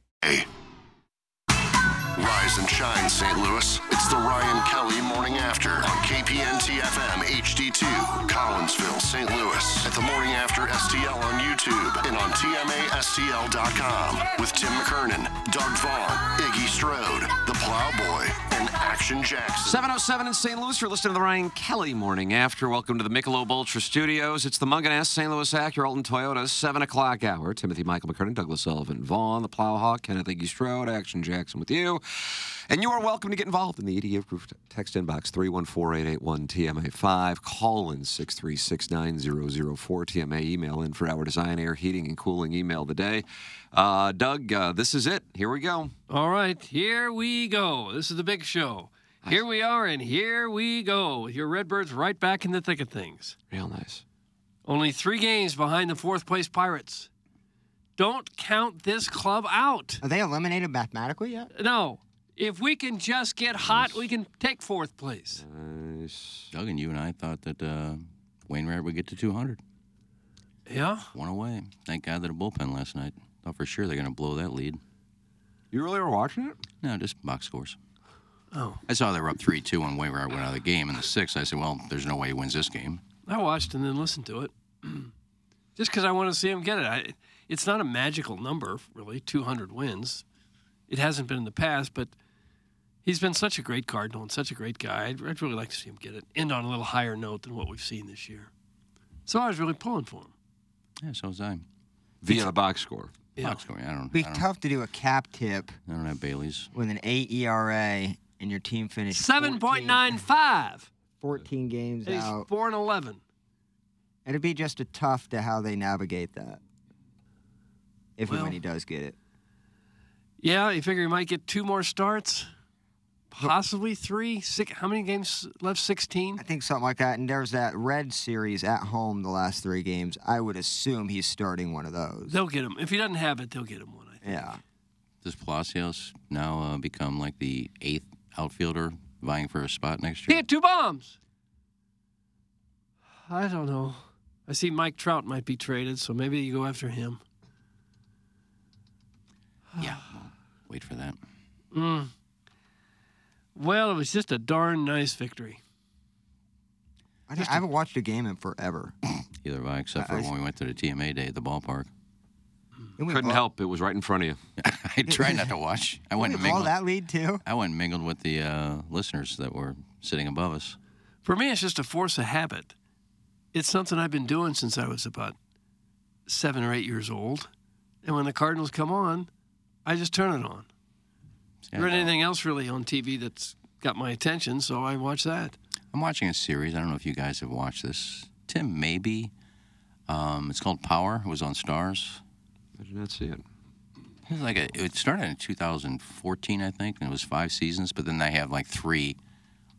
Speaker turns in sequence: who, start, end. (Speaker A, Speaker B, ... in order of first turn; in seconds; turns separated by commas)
Speaker A: 0.2-0.5, Speaker A: 2.2-19.8, Speaker B: 19.6-45.9, Speaker C: 46.1-53.4, Speaker B: 53.5-54.0, Speaker C: 54.7-57.1, Speaker C: 58.0-60.0, Speaker D: 60.0-61.5, Speaker C: 61.5-65.4, Speaker B: 63.5-64.1, Speaker B: 65.3-66.5, Speaker E: 66.5-69.6, Speaker C: 70.7-71.1, Speaker E: 71.1-74.8, Speaker B: 75.7-76.6, Speaker E: 76.8-77.8, Speaker C: 78.5-78.8, Speaker E: 78.9-83.0, Speaker C: 83.3-85.1, Speaker C: 85.8-90.2, Speaker C: 90.9-92.1, Speaker C: 93.0-98.5, Speaker C: 99.3-100.3, Speaker E: 101.0-101.7, Speaker B: 102.2-103.1, Speaker E: 103.4-104.5, Speaker D: 104.1-105.8, Speaker E: 105.9-106.7, Speaker D: 106.7-110.2, Speaker C: 109.1-110.9, Speaker D: 111.2-112.5, Speaker C: 112.1-113.2, Speaker D: 114.3-116.6, Speaker D: 118.2-119.2, Speaker C: 118.3-118.6, Speaker C: 120.4-122.5, Speaker C: 123.3-126.4, Speaker D: 126.4-132.4, Speaker C: 132.3-134.6, Speaker D: 134.2-134.6, Speaker E: 135.2-140.4, Speaker C: 140.3-141.2, Speaker C: 143.2-147.2, Speaker E: 149.8-151.2, Speaker C: 151.7-152.1, Speaker C: 153.6-155.6, Speaker D: 157.3-158.9, Speaker C: 157.4-157.6, Speaker E: 159.2-161.9, Speaker D: 160.0-160.3, Speaker D: 163.0-163.5, Speaker B: 163.1-164.4, Speaker E: 164.6-166.7, Speaker D: 165.1-165.4, Speaker D: 166.2-167.4, Speaker E: 167.4-170.8, Speaker C: 171.2-172.7, Speaker C: 173.5-175.4, Speaker C: 176.3-177.5, Speaker C: 178.0-179.3, Speaker C: 179.8-180.7, Speaker E: 181.7-182.1, Speaker C: 181.8-185.6, Speaker E: 185.9-189.3, Speaker E: 190.1-192.2, Speaker B: 192.8-193.4, Speaker E: 194.2-199.2